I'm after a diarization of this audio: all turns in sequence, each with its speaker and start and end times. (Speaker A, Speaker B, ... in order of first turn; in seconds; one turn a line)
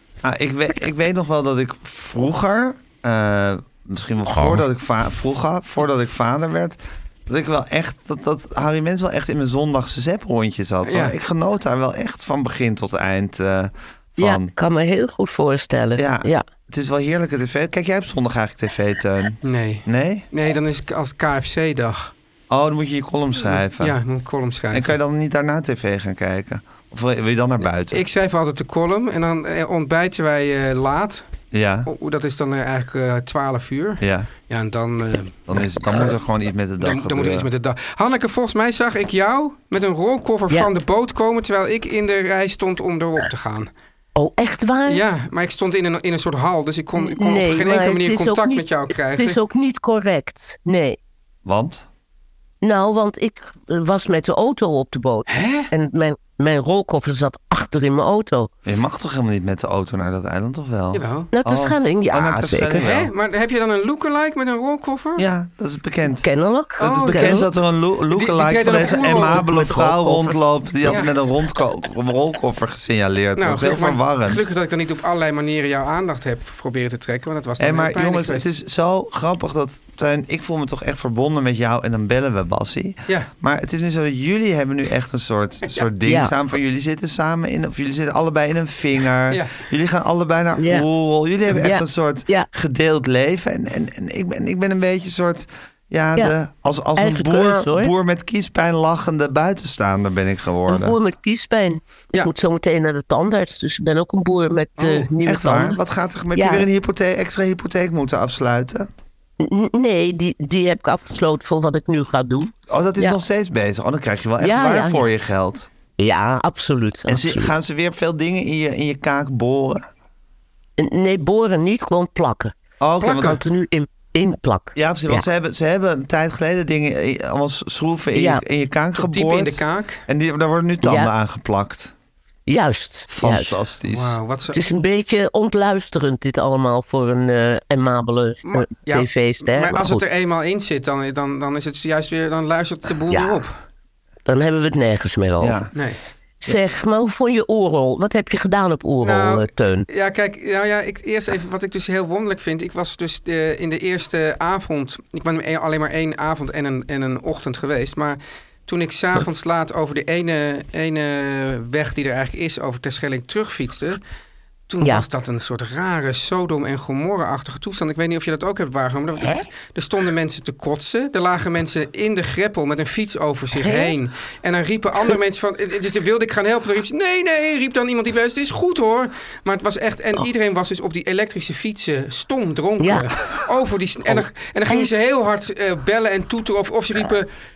Speaker A: 0.2-14.5
Speaker B: 10.8-11.1
Speaker C: 14.2-16.5
Speaker A: 15.9-20.2
Speaker B: 19.4-22.1
Speaker A: 22.5-24.0
Speaker B: 23.5-24.9
Speaker A: 24.7-28.0
Speaker B: 27.9-31.2
Speaker A: 31.5-31.9
Speaker B: 31.9-36.1
Speaker A: 34.0-34.3
Speaker A: 35.5-37.5
Speaker B: 36.8-43.7
Speaker C: 44.1-45.0
Speaker B: 44.9-49.4
Speaker C: 47.0-51.0
Speaker A: 51.4-51.8
Speaker C: 52.6-58.5
Speaker B: 55.3-55.7
Speaker A: 58.6-63.1
Speaker B: 60.9-61.3
Speaker C: 61.3-62.8
Speaker B: 62.7-65.2
Speaker A: 65.2-66.3
Speaker C: 66.1-67.5
Speaker B: 66.8-67.5
Speaker A: 66.8-74.5
Speaker B: 68.1-69.5
Speaker C: 68.8-71.0
Speaker B: 70.8-71.1
Speaker B: 73.3-78.5
Speaker A: 77.6-101.0
Speaker C: 86.0-86.3
Speaker B: 89.3-89.6
Speaker C: 90.6-90.8
Speaker C: 91.5-92.5
Speaker C: 97.0-97.9
Speaker C: 100.7-105.8
Speaker B: 104.8-105.1
Speaker A: 105.2-108.9
Speaker C: 106.3-106.7
Speaker C: 109.4-113.2
Speaker A: 112.7-115.7
Speaker C: 114.4-115.0
Speaker C: 116.0-117.5
Speaker A: 117.1-119.9
Speaker C: 120.8-122.5
Speaker A: 122.8-123.4
Speaker B: 123.0-123.4
Speaker C: 123.2-125.2
Speaker A: 124.8-131.9
Speaker C: 128.1-128.4
Speaker B: 129.0-130.0
Speaker C: 130.8-131.1
Speaker C: 132.5-133.6
Speaker A: 133.1-134.2
Speaker B: 133.9-134.6
Speaker C: 134.5-140.0
Speaker B: 138.4-143.5
Speaker C: 143.1-143.4
Speaker C: 144.2-145.6
Speaker A: 145.4-145.7
Speaker B: 145.7-146.0
Speaker C: 146.4-149.8
Speaker B: 149.0-164.0
Speaker B: 164.7-187.3
Speaker C: 173.6-173.9
Speaker C: 182.8-183.1
Speaker C: 184.1-184.9